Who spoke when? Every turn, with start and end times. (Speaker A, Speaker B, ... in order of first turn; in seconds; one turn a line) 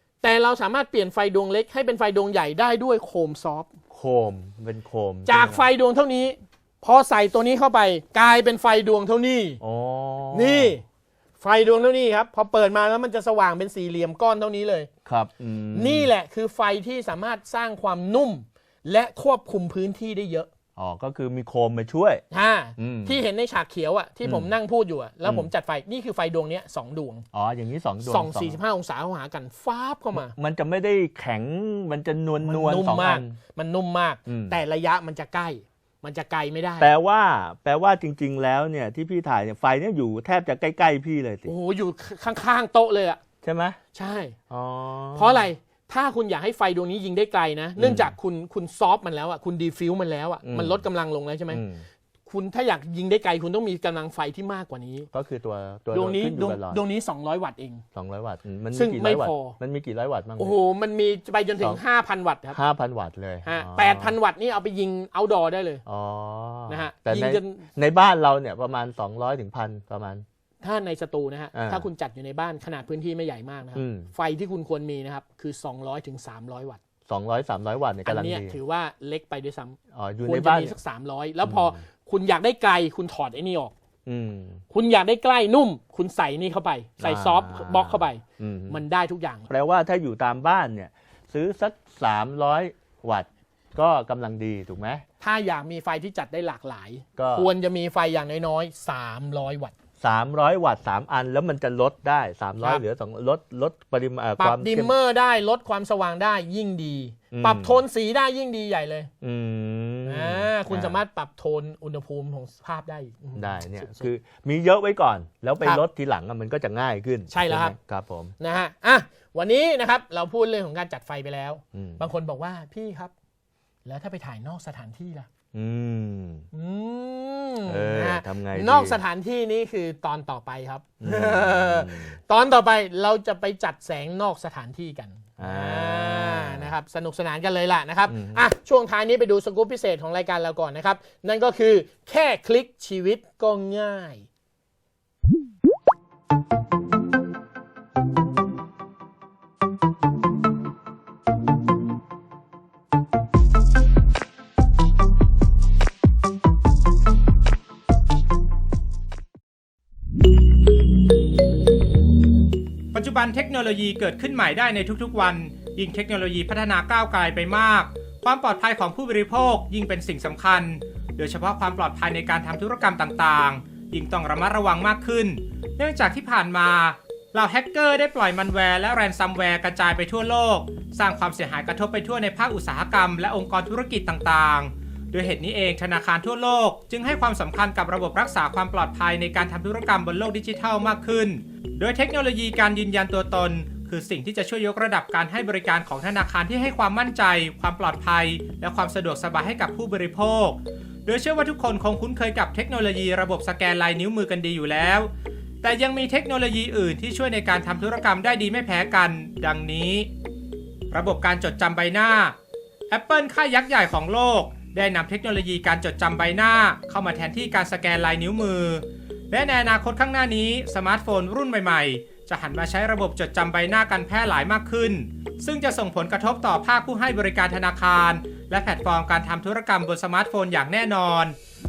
Speaker A: 0.2-3.7
Speaker B: 3.9-5.7
Speaker A: 5.2-9.6
Speaker B: 9.6-10.8
Speaker A: 10.3-10.8
Speaker A: 11.4-14.9
Speaker B: 15.0-16.1
Speaker A: 15.7-20.5
Speaker B: 20.8-22.2
Speaker A: 22.3-27.2
Speaker B: 22.8-23.2
Speaker B: 24.2-24.5
Speaker B: 25.2-25.5
Speaker B: 27.3-28.6
Speaker A: 28.0-30.3
Speaker B: 30.1-33.4
Speaker A: 32.4-36.9
Speaker B: 34.3-34.6
Speaker B: 36.8-41.5
Speaker A: 41.5-43.2
Speaker B: 43.4-43.8
Speaker A: 43.9-44.4
Speaker B: 44.5-45.4
Speaker A: 45.1-51.6
Speaker B: 47.8-48.1
Speaker B: 50.4-50.8
Speaker B: 51.5-51.8
Speaker A: 52.3-55.1
Speaker B: 55.1-56.8
Speaker A: 55.9-57.8
Speaker B: 57.9-60.5
Speaker A: 58.7-59.6
Speaker A: 60.4-62.6
Speaker B: 62.5-64.1
Speaker A: 63.4-65.8
Speaker B: 65.8-70.2
Speaker A: 66.7-67.6
Speaker A: 70.6-76.8
Speaker B: 71.5-71.9
Speaker B: 73.8-74.1
Speaker B: 77.1-78.5
Speaker A: 78.0-83.7
Speaker B: 79.9-80.7
Speaker B: 81.4-81.8
Speaker B: 84.0-84.6
Speaker A: 84.7-89.5
Speaker B: 87.0-88.8
Speaker B: 89.5-95.0
Speaker A: 95.2-99.7
Speaker B: 97.2-97.5
Speaker B: 100.0-104.9
Speaker A: 104.4-109.1
Speaker B: 107.3-107.8
Speaker B: 109.2-111.0
Speaker A: 110.0-114.1
Speaker B: 113.3-118.3
Speaker A: 117.3-117.7
Speaker A: 118.4-123.1
Speaker B: 121.7-122.0
Speaker A: 123.8-125.3
Speaker B: 125.5-126.5
Speaker A: 126.5-144.2
Speaker B: 127.7-129.0
Speaker B: 131.0-132.2
Speaker B: 135.4-136.7
Speaker B: 138.1-138.4
Speaker C: 162.9-205.1
Speaker C: 205.6-210.1
Speaker C: 210.9-212.3
Speaker C: 212.9-231.3